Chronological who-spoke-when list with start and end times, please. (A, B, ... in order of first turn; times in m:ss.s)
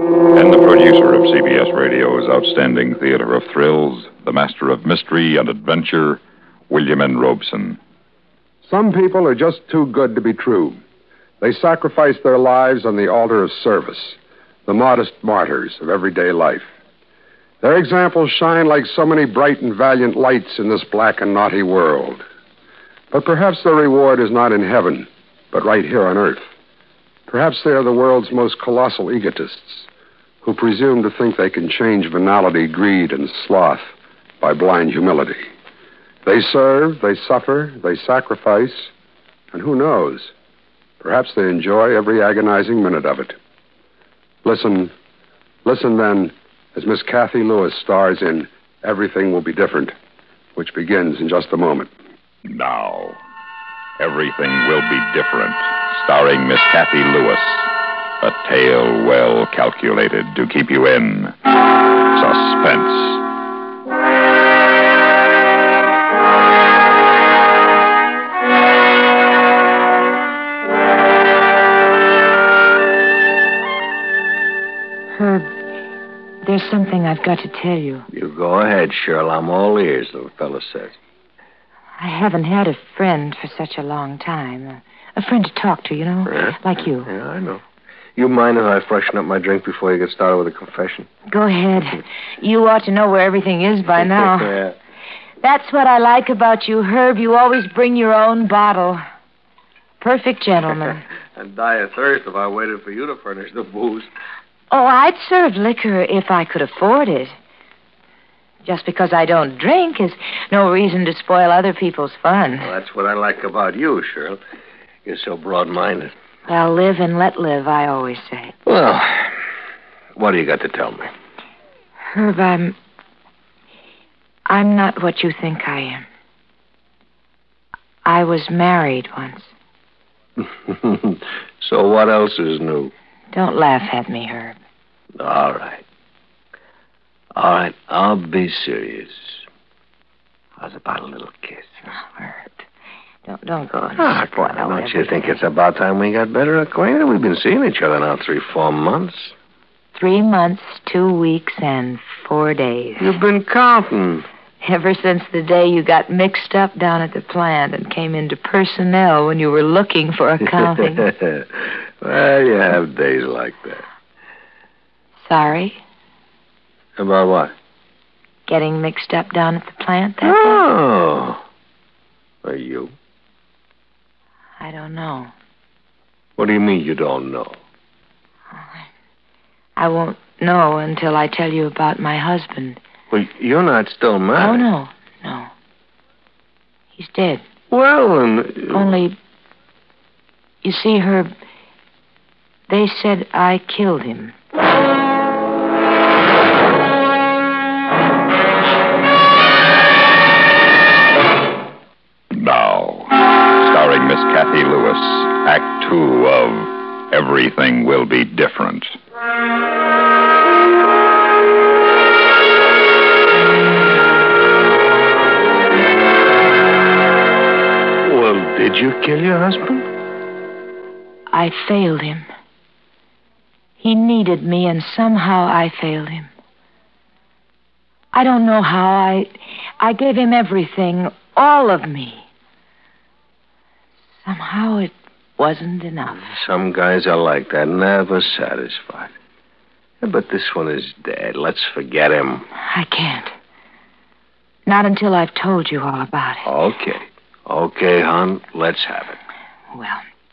0:00.3-0:07.8 A
0:08.6-0:10.8 B
0:11.4-0:16.7 B
0:17.6-0:22.2 B
0:23.1-0:26.5 B
0:27.3-0:29.9 B
0:30.4-0:35.5 B
0:36.2-0:38.9 B
0:39.5-0:40.3 B
0:41.0-0:43.4 B
0:44.4-0:45.0 B
0:45.6-0:50.0 B
0:50.6-0:51.9 B
0:52.5-0:53.2 A
0:54.0-1:01.4 A
1:02.1-1:03.2 A
1:15.1-1:15.5 C
1:16.4-1:18.1 C
1:18.1-1:21.0 D
1:22.0-1:27.1 C
1:26.3-1:27.6 D
1:28.2-1:31.1 D
1:31.3-1:34.6 C
1:34.0-1:34.8 D
1:35.4-1:39.0 C
1:40.0-1:41.1 C
1:41.4-1:44.1 D
1:44.7-1:47.3 C
1:48.6-1:52.7 C
1:52.6-1:54.4 D
1:55.1-1:56.1 D
1:56.5-1:58.5 C
1:58.7-1:59.4 D
2:00.2-2:01.1 D
2:02.0-2:02.8 C
2:04.5-2:06.0 C
2:08.0-2:09.5 C
2:10.4-2:12.9 D
2:13.3-2:14.6 C
2:15.2-2:15.8 D
2:17.4-2:19.4 D
2:20.6-2:21.8 D
2:21.9-2:22.7 C
2:23.2-2:25.4 C
2:23.7-2:29.4 D
2:29.9-2:33.2 C
2:33.0-2:34.3 D
2:34.6-2:41.1 C
2:41.0-2:43.8 D
2:45.3-2:45.8 C
2:47.0-2:47.5 D
2:48.5-2:50.7 C
2:50.2-2:51.4 D
2:52.4-2:53.0 D
2:54.6-2:55.3 C
2:56.4-2:57.6 D
2:58.5-2:58.9 C
2:59.8-3:02.8 C
3:03.1-3:04.7 D
3:04.4-3:05.5 C
3:07.0-3:07.4 C
3:07.7-3:08.9 D
3:08.7-3:09.2 C
3:10.6-3:11.3 C
3:12.7-3:14.4 C
3:22.4-3:28.9 A
3:38.0-3:39.8 D
3:41.3-3:42.3 C
3:43.8-3:46.3 C
3:48.1-3:52.3 C
3:54.2-3:56.3 C
3:56.1-3:59.1 D
4:00.0-4:02.5 D
4:02.6-4:03.3 C
4:04.7-4:06.5 C
4:06.4-4:09.2 D
4:09.7-4:10.0 C